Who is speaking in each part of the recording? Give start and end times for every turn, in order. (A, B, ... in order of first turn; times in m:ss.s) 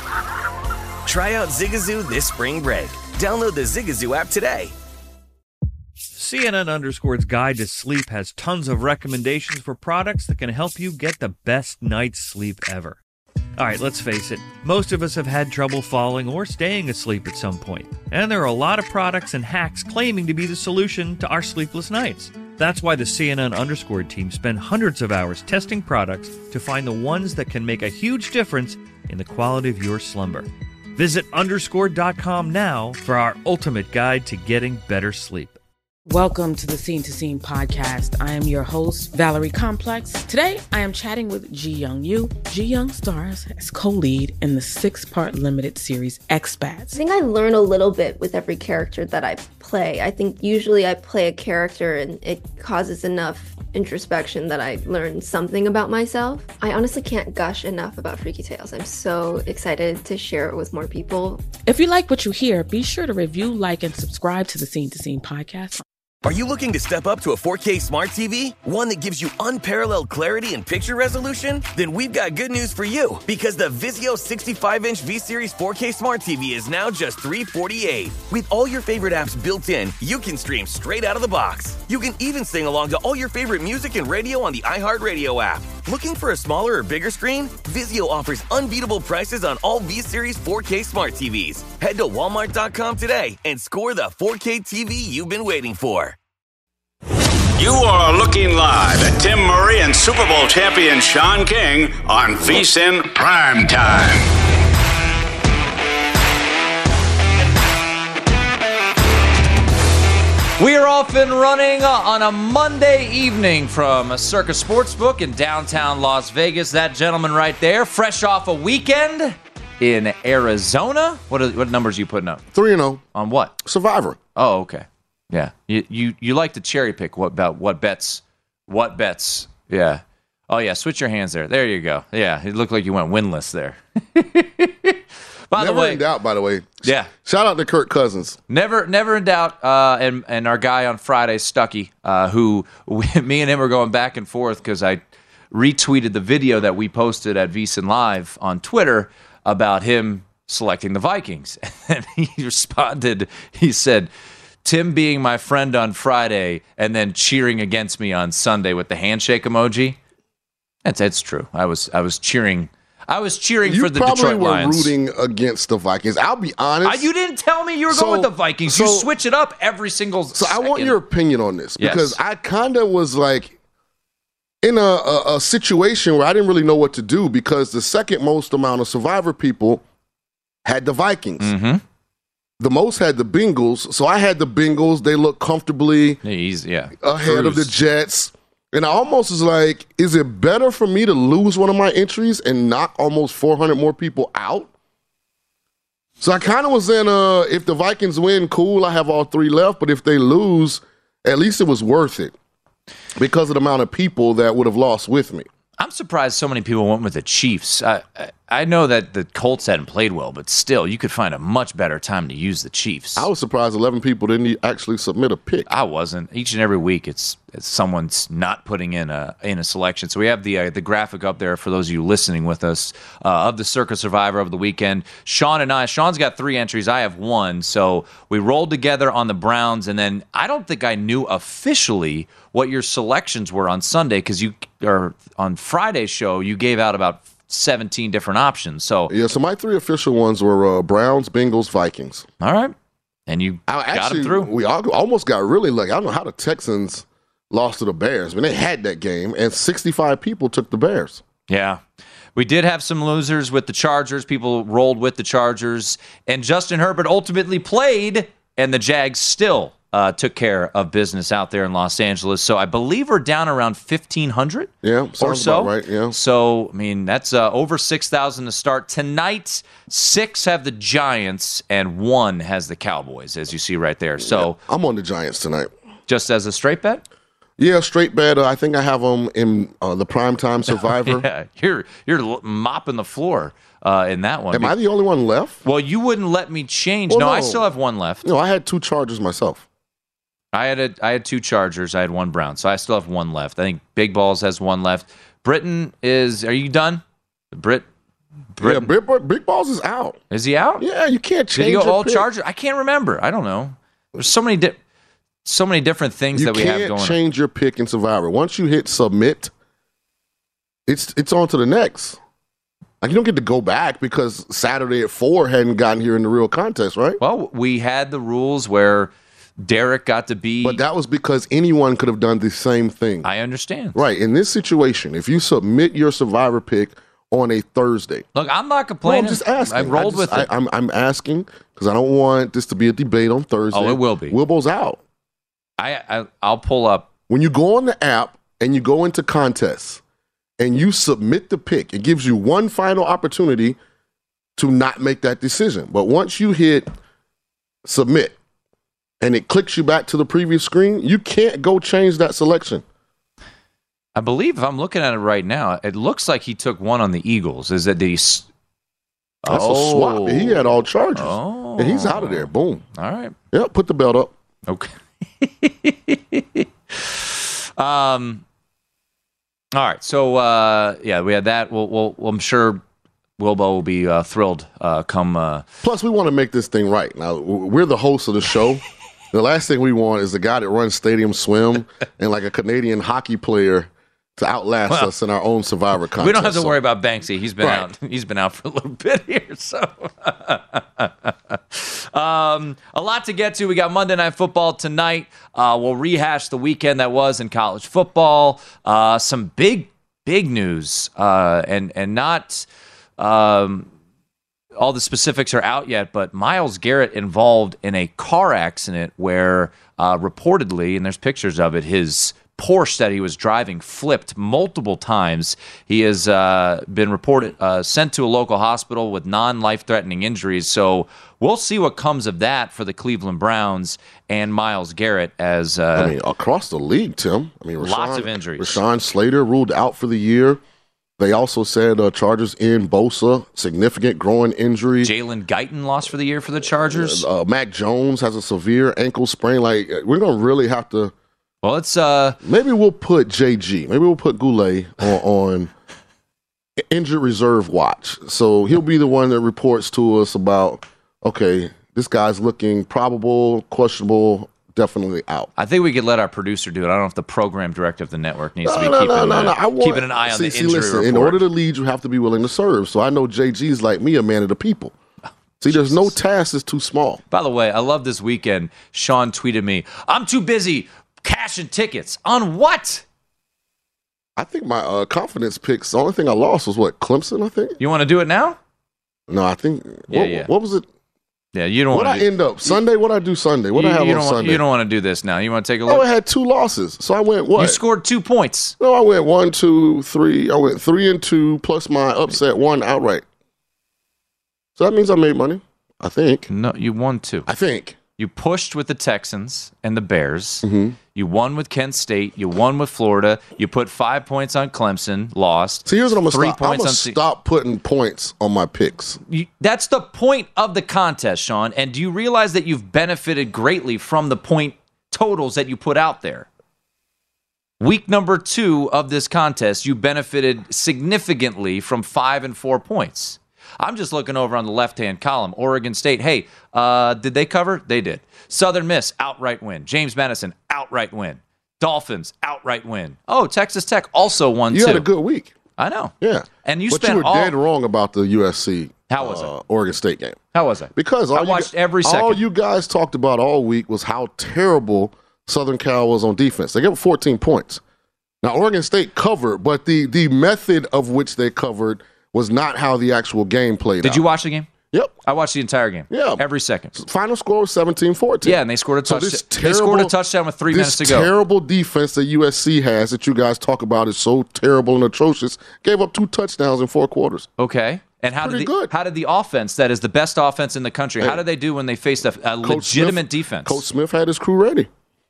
0:01.0-0:04.7 A
0:06.2-0:13.0 B
0:13.6-0:35.6 B
0:36.1-0:47.0 C
0:46.9-1:01.5 D
1:01.6-1:05.8 C
1:06.2-1:36.2 A
1:37.6-1:44.3 E
1:50.6-2:02.4 F
2:02.5-2:03.0 G
2:03.1-2:03.5 F
2:03.6-2:04.2 G
2:04.4-2:16.0 F
2:15.6-2:18.4 G
2:16.8-2:17.1 F
2:18.5-2:34.1 F
2:34.6-2:40.0 F
2:40.8-2:44.9 F
2:43.6-2:47.1 G
2:46.8-2:51.0 F
2:47.9-2:49.1 G
2:50.4-2:53.6 G
2:51.8-2:52.2 F
2:54.6-2:59.8 G
3:00.6-3:01.5 G
3:01.4-3:01.8 F
3:02.6-3:06.2 G
3:06.2-3:07.8 F
3:07.0-3:14.7 G
3:16.2-3:22.4 G
3:23.2-3:25.5 G
3:25.8-3:33.3 F
3:33.2-3:35.7 G
3:35.7-3:59.1 F
3:59.1-4:02.3 G
4:02.4-4:02.7 F
4:03.3-4:04.5 F
4:03.7-4:11.2 G
4:11.5-4:11.8 F
4:12.4-4:34.6 F
4:24.8-4:26.2 G
4:34.2-4:35.7 G
4:36.1-4:37.0 F
4:37.6-4:41.3 G
4:40.7-4:44.8 F
4:44.5-4:45.6 G
4:45.6-4:48.2 F
4:47.1-4:47.7 G
4:48.2-4:49.7 G
4:50.5-4:57.9 F
4:58.6-4:58.9 F
4:58.6-5:00.2 G
5:00.3-5:00.8 F
5:00.8-5:02.3 G
5:01.5-5:04.8 F
5:05.4-5:07.2 F
5:06.3-5:09.5 G
5:10.9-5:12.2 G
5:13.0-5:17.2 G
5:17.2-5:20.8 F
5:20.6-5:23.3 G
5:23.2-5:24.0 F
5:23.9-5:28.2 G
5:28.4-5:30.5 F
5:29.0-5:35.0 G
5:33.7-5:34.4 F
5:35.8-5:37.1 F
5:37.3-5:40.0 G
5:40.6-5:43.8 G
5:44.6-5:46.9 G
5:47.8-5:48.4 G
5:49.2-5:52.8 G
5:54.2-5:58.5 F
5:59.4-6:03.4 F
5:59.5-6:02.8 G
6:03.5-6:04.3 G
6:04.7-6:08.4 F
6:09.7-6:12.8 F
6:13.4-6:15.6 F
6:15.8-6:26.8 G
6:26.2-6:42.7 F
6:27.6-6:27.9 G
6:43.2-6:43.9 F
6:44.8-7:06.2 F
7:06.0-7:10.6 G
7:07.8-7:08.8 F
7:11.2-7:15.1 G
7:15.0-7:17.3 F
7:16.7-7:21.1 G
7:21.6-7:22.4 F
7:22.4-7:25.7 G
7:26.9-7:35.5 G
7:35.6-7:41.4 F
7:38.6-7:45.0 G
7:45.6-7:47.2 G
7:45.7-7:46.1 F
7:47.3-7:53.0 F
7:54.4-7:57.8 G
7:57.8-7:58.6 F
7:59.3-8:00.9 G
8:00.1-8:00.5 F
8:01.5-8:02.8 F
8:01.9-8:04.6 G
8:03.8-8:06.0 F
8:05.9-8:07.8 G
8:07.6-8:08.8 F
8:08.8-8:13.2 G
8:14.8-8:16.5 G
8:16.5-8:17.5 F
8:17.5-8:18.0 G
8:18.2-8:27.2 F
8:20.6-8:21.0 G
8:25.8-8:29.2 G
8:29.3-8:36.5 F
8:37.8-8:55.1 F
8:54.7-8:55.6 G
8:55.8-8:57.6 F
8:56.2-9:00.4 G
8:59.1-8:59.5 F
9:00.5-9:02.4 F
9:01.0-9:07.8 G
9:08.4-9:14.3 G
9:14.0-9:14.7 F
9:14.9-9:15.2 G
9:15.2-9:16.9 F
9:16.1-9:20.1 G
9:18.4-9:21.3 F
9:20.7-9:27.5 G
9:27.6-9:33.8 F
9:28.4-9:28.9 G
9:32.6-9:34.9 G